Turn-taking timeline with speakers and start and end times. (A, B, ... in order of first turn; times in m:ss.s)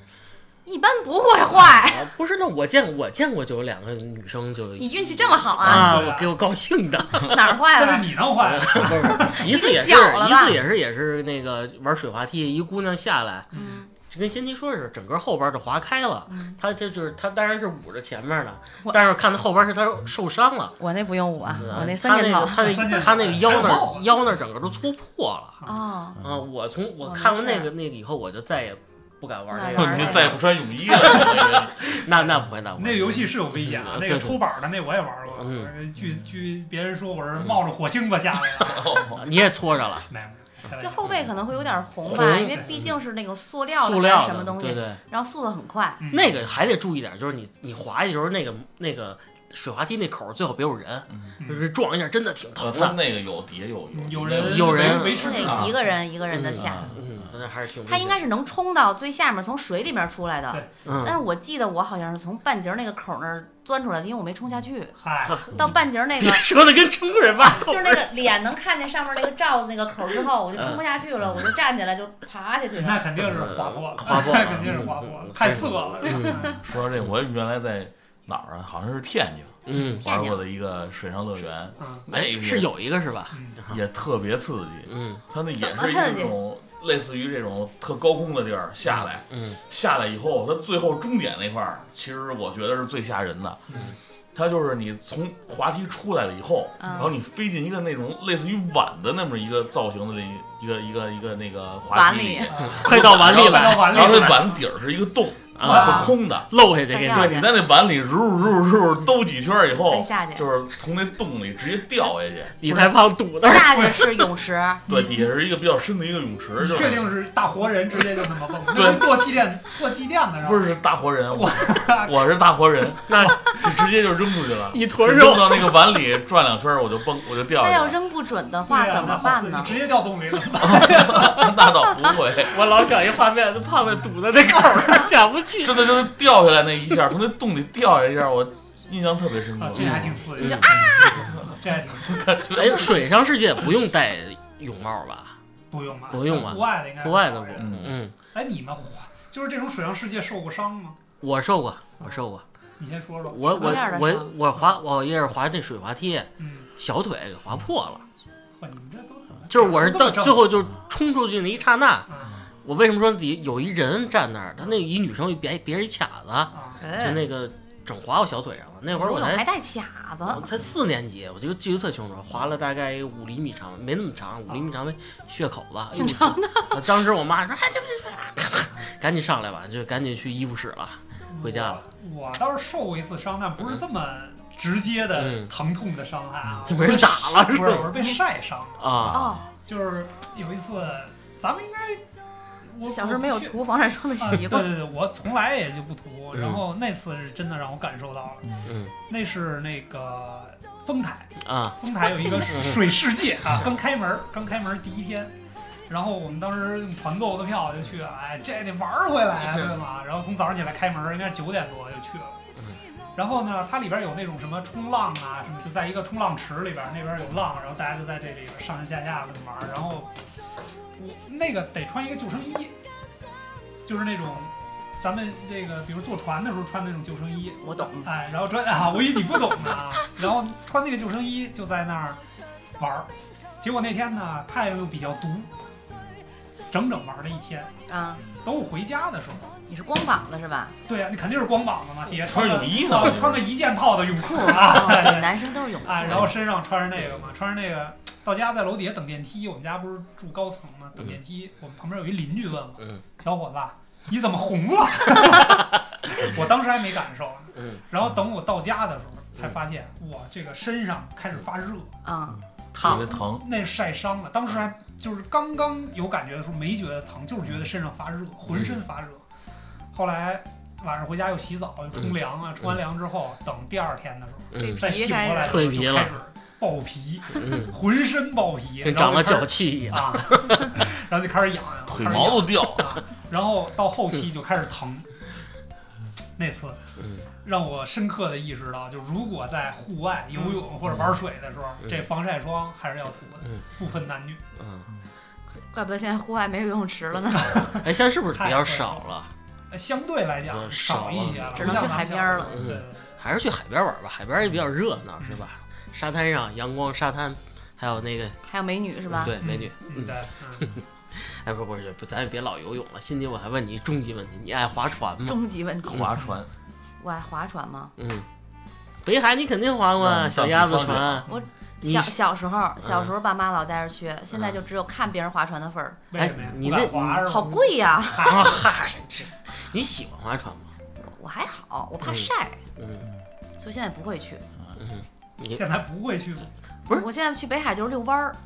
0:00.7-0:02.1 A
0:01.6-0:07.6 B
0:04.8-0:06.0 A
0:05.6-0:06.4 C
0:07.2-0:08.2 A
0:07.6-0:09.5 C
0:08.4-0:13.5 B
0:09.2-0:10.6 A
0:13.5-0:13.9 A
0:14.0-0:20.8 B
0:16.3-0:16.6 A
0:20.8-0:23.1 A
0:21.6-0:25.6 B
0:22.5-0:24.1 C
0:25.6-0:26.2 A
0:26.2-0:34.4 B
0:27.0-0:27.7 A
0:29.5-0:30.4 A
0:29.8-0:31.9 D
0:32.8-0:39.1 C
0:35.4-0:35.7 B
0:38.6-0:39.2 D
0:39.1-0:40.1 B
0:40.1-0:41.0 C
0:40.8-0:46.0 A
0:42.0-0:43.0 B
0:43.8-0:45.0 B
0:46.0-0:46.4 C
0:46.1-0:53.0 B
0:51.4-0:51.7 C
0:52.6-0:54.8 D
0:53.9-0:55.8 C
0:54.4-0:55.7 B
0:54.8-0:57.0 A
0:55.4-0:55.8 D
0:56.3-0:58.2 B
0:56.6-0:57.1 D
0:57.9-1:04.9 A
1:00.8-1:01.2 B
1:05.0-1:05.4 C
1:05.3-1:05.6 B
1:05.5-1:06.5 A
1:06.2-1:08.1 B
1:07.4-1:13.2 A
1:10.6-1:10.8 B
1:12.8-1:16.6 C
1:13.2-1:16.6 B
1:16.1-1:16.6 A
1:16.6-1:22.7 D
1:19.7-1:20.0 B
1:19.8-1:20.4 A
1:21.8-1:22.0 C
1:22.1-1:23.8 B
1:23.3-1:23.6 C
1:23.7-1:33.6 D
1:24.9-1:25.2 B
1:25.6-1:26.4 A
1:28.9-1:29.6 B
1:34.4-1:46.5 D
1:36.8-1:37.1 A
1:41.9-1:42.5 A
1:42.5-1:44.6 C
1:42.6-1:44.3 B
1:45.6-1:47.4 B
1:45.6-1:46.1 C
1:46.9-1:47.5 A
1:47.1-1:52.7 D
1:49.9-1:50.5 A
1:52.6-1:54.2 B
1:53.4-1:55.1 A
1:54.9-1:57.1 D
1:56.6-2:00.7 C
1:58.7-1:59.2 D
2:00.4-2:08.0 D
2:01.3-2:02.2 C
2:03.1-2:03.5 B
2:03.2-2:03.6 C
2:04.7-2:05.8 B
2:07.6-2:09.8 A
2:08.7-2:11.5 C
2:10.6-2:12.6 D
2:12.4-2:16.1 B
2:15.6-2:20.2 D
2:19.6-2:22.2 C
2:19.8-2:20.9 B
2:20.4-2:21.3 A
2:21.1-2:23.0 D
2:22.5-2:25.4 B
2:25.7-2:27.8 C
2:26.1-2:28.1 B
2:27.6-2:28.0 D
2:28.3-2:31.0 C
2:31.2-2:32.4 B
2:32.8-2:34.0 C
2:33.3-2:38.0 B
2:33.5-2:34.4 A
2:34.5-2:34.8 C
2:36.4-2:36.7 C
2:38.6-2:40.6 C
2:39.5-2:42.1 B
2:42.1-2:42.4 C
2:42.6-2:49.4 B
2:46.5-2:46.8 C
2:46.8-2:47.3 A
2:48.9-2:50.4 A
2:50.3-3:01.8 B
2:56.0-2:56.8 A
3:01.3-3:09.1 C
3:05.2-3:05.5 B
3:06.7-3:08.2 B
3:08.8-3:09.3 B
3:09.1-3:09.5 A
3:09.6-3:12.0 C
3:12.6-3:13.6 C
3:12.9-3:14.8 A
3:14.2-3:25.3 C
3:16.3-3:16.6 B
3:18.6-3:18.9 B
3:21.4-3:23.0 B
3:22.1-3:22.5 A
3:25.9-3:32.4 C
3:33.2-3:40.1 C
3:41.0-3:42.8 C
3:43.8-3:52.2 C
3:47.6-3:48.1 A
3:52.8-3:55.6 C
3:56.7-3:57.7 C
3:57.9-3:58.2 A
3:58.4-3:59.5 C
3:59.7-4:00.8 A
4:00.9-4:21.9 C
4:02.2-4:03.5 D
4:04.2-4:06.3 A
4:17.6-4:17.8 B
4:22.0-4:23.0 A
4:22.7-4:23.5 D
4:22.8-4:29.2 C
4:28.5-4:28.8 B
4:29.9-4:45.1 C
4:34.5-4:34.8 B
4:34.6-4:35.7 A
4:35.4-4:36.1 B
4:37.4-4:37.8 B
4:38.8-4:40.7 B
4:41.9-4:43.0 D
4:46.4-4:46.8 C
4:47.0-4:47.2 B
4:47.4-4:54.4 C
4:50.4-4:50.6 A
4:50.9-4:51.2 B
4:54.6-4:54.9 B
4:55.7-4:57.8 A
4:57.5-4:57.8 C
4:57.7-4:59.3 B
4:58.3-4:59.0 C
4:59.7-5:03.2 C
5:00.5-5:08.4 B
5:01.6-5:02.6 A
5:08.5-5:09.4 A
5:09.1-5:15.4 B
5:09.4-5:10.7 C
5:15.2-5:16.0 A
5:15.8-5:16.5 D
5:17.0-5:17.9 A
5:18.0-5:18.3 B
5:19.0-5:21.3 B
5:20.0-5:21.2 D
5:21.3-5:26.0 A
5:21.8-5:22.1 B
5:22.8-5:23.1 B
5:26.1-5:27.5 C
5:26.2-5:27.5 B
5:27.2-5:28.4 A
5:28.2-5:28.6 C
5:28.2-5:30.7 B
5:31.0-5:32.6 A
5:32.0-5:33.1 B
5:33.6-5:34.4 A
5:34.8-5:35.6 B
5:35.5-5:36.5 C
5:36.9-5:38.4 A